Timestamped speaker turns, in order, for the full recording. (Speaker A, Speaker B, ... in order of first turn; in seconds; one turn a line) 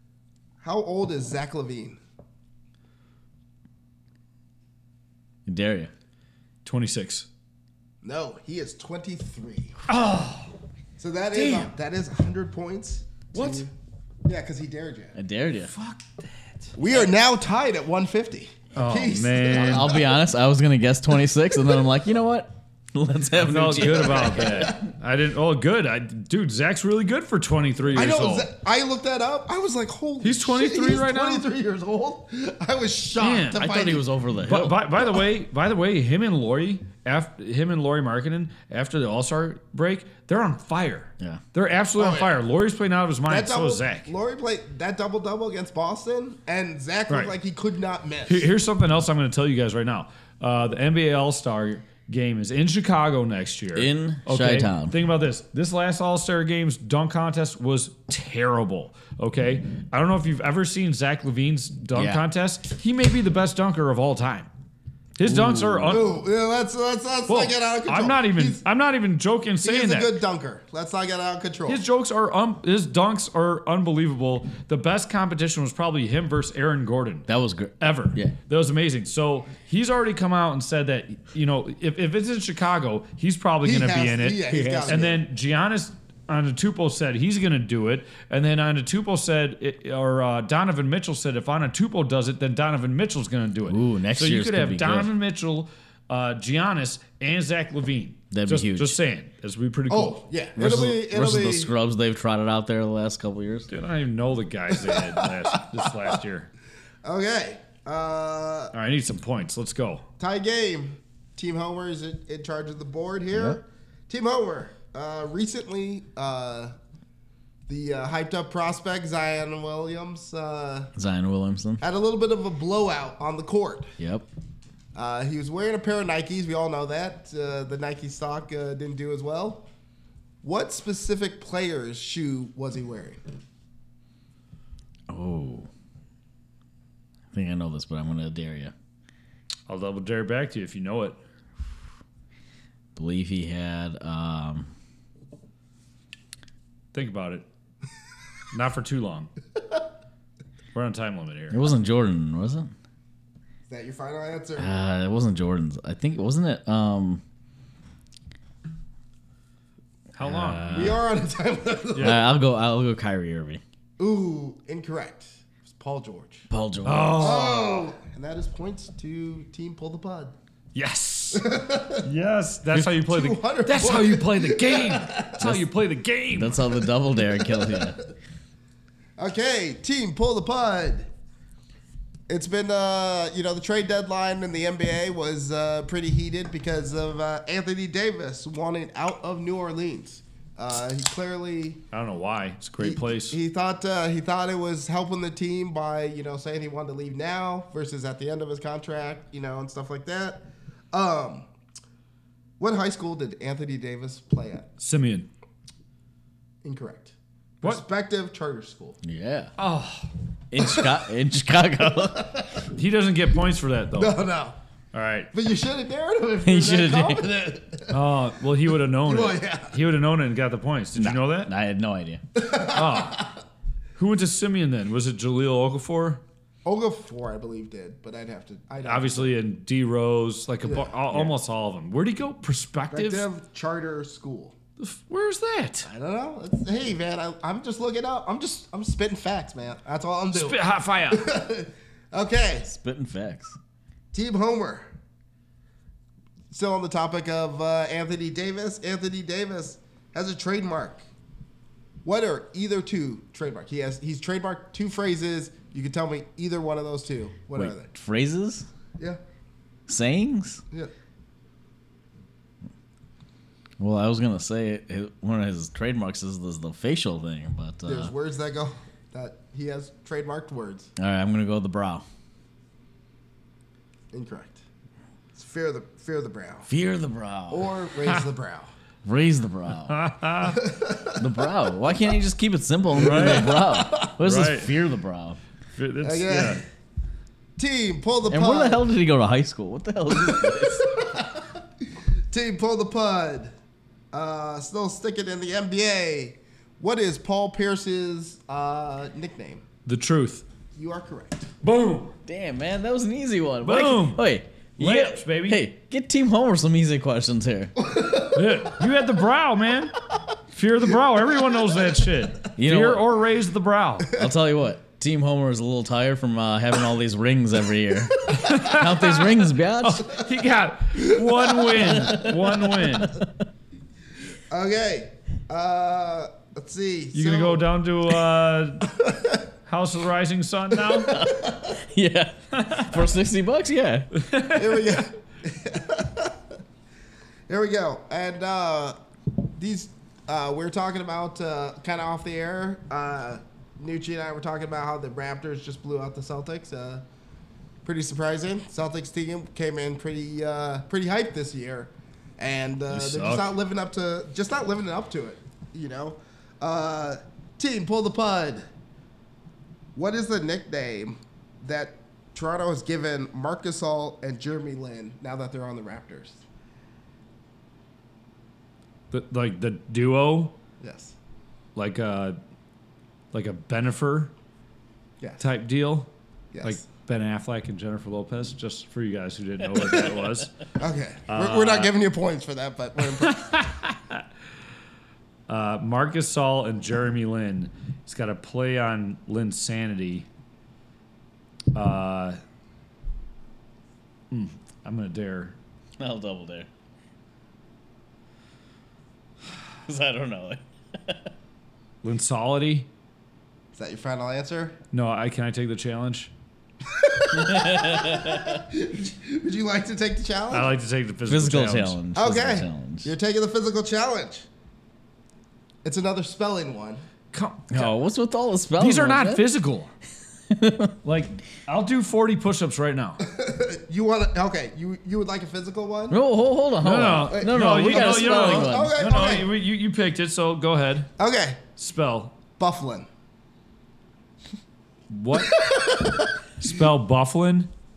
Speaker A: 0.6-2.0
Speaker B: 5.5-5.9
Speaker C: 6.7-7.3
Speaker A: 8.0-9.8
Speaker C: 9.9-10.5
Speaker A: 11.0-13.7
Speaker C: 11.3-11.7
Speaker C: 13.3-13.7
Speaker A: 14.2-15.2
Speaker B: 15.2-15.7
Speaker C: 15.6-17.1
Speaker A: 16.8-20.2
Speaker C: 18.8-20.0
Speaker B: 19.5-24.8
Speaker C: 23.4-28.5
Speaker A: 23.9-24.8
Speaker A: 27.9-34.0
Speaker C: 30.2-31.4
Speaker C: 33.2-44.1
Speaker B: 33.7-34.8
Speaker A: 42.0-42.4
Speaker A: 43.3-48.5
Speaker C: 48.3-64.5
Speaker B: 53.8-55.0
Speaker B: 62.0-62.2
Speaker C: 65.2-66.1
Speaker B: 65.2-66.0
Speaker A: 65.9-68.6
Speaker C: 67.3-70.2
Speaker A: 69.6-71.8
Speaker C: 71.7-77.3
Speaker B: 77.3-78.3
Speaker C: 77.8-100.2
Speaker A: 83.6-85.2
Speaker B: 93.7-95.1
Speaker B: 98.3-99.0
Speaker A: 99.9-101.7
Speaker B: 100.6-103.7
Speaker C: 103.7-106.5
Speaker A: 104.7-105.8
Speaker A: 107.0-108.7
Speaker C: 108.7-110.1
Speaker A: 110.2-116.8
Speaker B: 113.3-113.6
Speaker A: 117.7-120.9
Speaker B: 121.0-121.8
Speaker A: 121.8-123.9
Speaker B: 124.0-124.3
Speaker A: 125.0-129.7
Speaker A: 130.4-133.2
Speaker B: 135.1-135.7
Speaker B: 137.3-138.7
Speaker C: 139.7-141.2
Speaker B: 142.9-144.7
Speaker C: 146.9-147.5
Speaker C: 148.5-149.3
Speaker C: 150.7-151.7
Speaker B: 151.5-152.7
Speaker A: 153.7-154.7
Speaker B: 154.6-157.2
Speaker C: 160.1-161.0
Speaker B: 160.2-161.1
Speaker A: 160.7-162.2
Speaker C: 161.9-162.2
Speaker B: 162.0-163.6
Speaker A: 164.0-166.5
Speaker B: 166.5-167.4
Speaker C: 166.8-167.9
Speaker A: 167.2-170.3
Speaker C: 170.7-171.4
Speaker A: 171.3-172.1
Speaker C: 172.0-176.7
Speaker A: 172.8-175.5
Speaker B: 176.3-178.0
Speaker A: 177.2-178.0
Speaker A: 179.2-181.1
Speaker A: 182.3-191.8
Speaker C: 191.9-193.4
Speaker A: 192.8-201.5
Speaker A: 202.6-204.7
Speaker C: 204.8-205.3
Speaker A: 206.6-209.0
Speaker B: 209.0-209.5
Speaker C: 209.6-210.1
Speaker B: 210.5-212.5
Speaker A: 210.6-210.9
Speaker A: 212.2-212.5
Speaker C: 212.7-214.2
Speaker A: 214.0-214.6
Speaker C: 214.9-215.3
Speaker A: 215.3-218.0
Speaker B: 216.4-217.3
Speaker C: 217.9-221.5
Speaker A: 219.1-219.8
Speaker B: 220.9-222.2
Speaker A: 222.3-223.3
Speaker C: 222.7-223.3
Speaker C: 224.0-226.2
Speaker A: 226.7-229.3
Speaker C: 228.8-233.3
Speaker A: 230.7-231.2
Speaker A: 232.9-234.6
Speaker C: 234.8-235.9
Speaker A: 235.9-240.6
Speaker C: 240.3-241.3
Speaker A: 241.1-242.7
Speaker B: 242.7-243.6
Speaker A: 244.1-244.9
Speaker A: 246.5-251.1
Speaker A: 252.0-257.9
Speaker B: 257.6-258.7
Speaker B: 259.9-260.6
Speaker B: 263.8-268.1
Speaker A: 267.9-270.9
Speaker B: 271.0-272.1
Speaker A: 274.1-274.6
Speaker A: 275.3-276.7
Speaker B: 276.7-277.7
Speaker A: 277.5-278.7
Speaker B: 279.0-280.0
Speaker C: 279.9-280.6
Speaker A: 280.4-281.5
Speaker B: 281.2-285.4
Speaker C: 283.0-283.5
Speaker A: 283.0-284.1
Speaker C: 284.2-284.7
Speaker C: 285.8-286.6
Speaker A: 286.0-286.6
Speaker A: 287.6-288.8
Speaker B: 288.3-291.1
Speaker A: 290.1-291.6
Speaker A: 292.3-293.5
Speaker A: 294.1-299.6
Speaker C: 299.9-300.4
Speaker A: 300.8-301.5
Speaker C: 301.6-302.2
Speaker B: 302.3-307.7
Speaker C: 303.6-305.7
Speaker A: 307.8-308.6
Speaker C: 308.3-309.9
Speaker C: 310.5-314.2
Speaker B: 312.6-313.1
Speaker B: 314.1-320.1
Speaker A: 318.3-318.6
Speaker C: 318.3-319.2
Speaker C: 319.8-323.2
Speaker A: 321.0-322.8
Speaker B: 321.9-322.3
Speaker B: 322.9-323.3
Speaker A: 324.5-327.6
Speaker C: 327.1-328.9
Speaker A: 328.9-329.4
Speaker C: 329.7-331.3
Speaker A: 330.8-331.8
Speaker B: 331.1-334.1
Speaker C: 332.5-332.9
Speaker C: 334.1-335.0
Speaker A: 334.5-336.4
Speaker A: 337.5-339.0
Speaker A: 339.5-347.1
Speaker A: 347.8-358.7
Speaker C: 352.9-353.5
Speaker A: 359.9-366.4
Speaker C: 369.1-370.6
Speaker A: 370.8-371.1
Speaker C: 371.8-372.4
Speaker C: 373.3-374.3
Speaker C: 375.4-376.1
Speaker A: 376.5-376.8
Speaker C: 376.6-380.5
Speaker B: 379.6-380.5
Speaker A: 380.8-383.6
Speaker C: 381.3-381.9
Speaker C: 383.1-384.2
Speaker C: 385.5-390.3
Speaker C: 391.8-392.4
Speaker C: 394.3-395.6
Speaker B: 396.0-396.7
Speaker B: 399.9-401.3
Speaker C: 402.0-402.9
Speaker A: 403.7-404.8
Speaker C: 404.9-406.3
Speaker A: 406.9-410.7
Speaker B: 407.3-408.6
Speaker C: 410.5-412.0
Speaker B: 411.3-413.1
Speaker A: 412.1-414.5
Speaker A: 415.8-417.0
Speaker C: 417.3-418.0
Speaker B: 417.7-419.5
Speaker C: 418.8-419.9
Speaker B: 420.5-420.9
Speaker C: 421.0-423.2
Speaker A: 423.2-426.2
Speaker B: 426.1-429.0
Speaker C: 426.8-431.1
Speaker A: 427.3-429.5
Speaker A: 431.2-431.6
Speaker C: 431.8-432.3
Speaker A: 432.6-433.1
Speaker C: 435.1-435.6
Speaker A: 435.3-436.4
Speaker C: 436.6-437.7